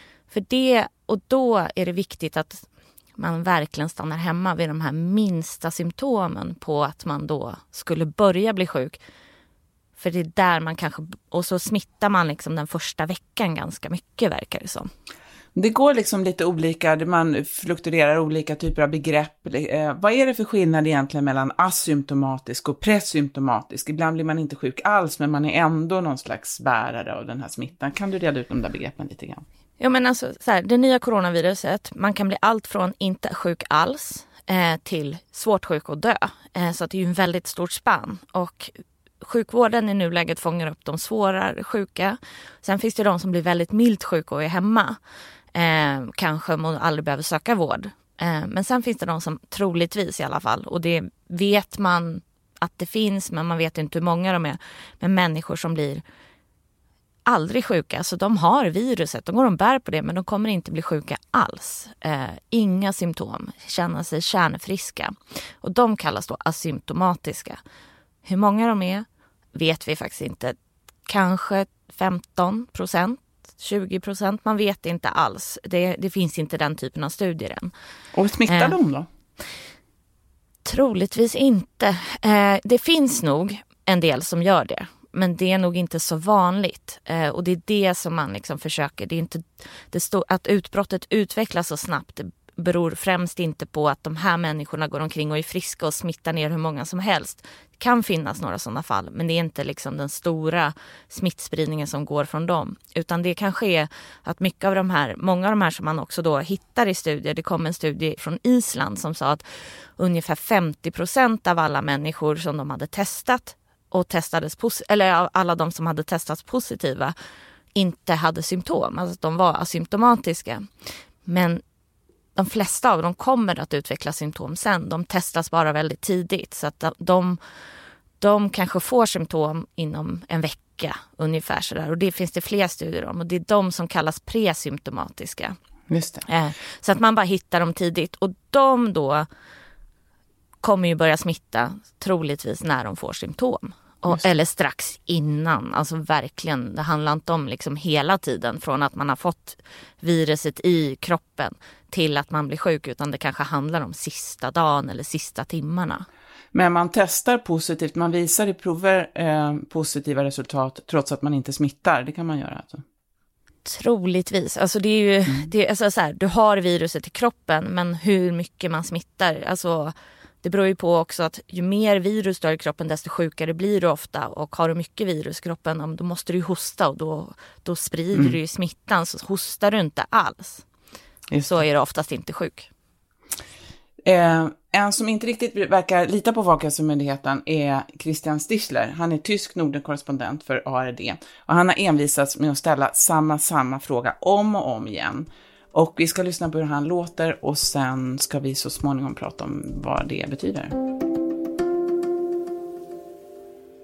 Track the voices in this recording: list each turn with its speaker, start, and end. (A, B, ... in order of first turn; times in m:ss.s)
0:00.3-0:09.0 A
0:10.0-0:14.9 A
0:15.5-0:29.4 B
0:29.8-0:38.7 A
0:39.2-0:45.0 A
0:45.5-0:56.0 A
0:57.2-1:07.6 A
1:08.2-1:10.6 A
1:11.1-1:17.7 A
1:18.1-1:19.0 B
1:18.5-1:18.7 A
1:20.6-1:49.4 A
1:50.0-1:57.1 A
1:57.7-2:00.6 A
2:01.2-2:01.6 A
2:02.4-2:07.4 A
2:08.2-2:15.5 A
2:15.9-2:16.2 B
2:16.3-2:19.2 A
2:20.6-2:36.0 A
2:36.5-2:42.8 B
2:43.6-3:00.6 A
3:01.4-3:02.7 A
3:04.0-3:20.7 B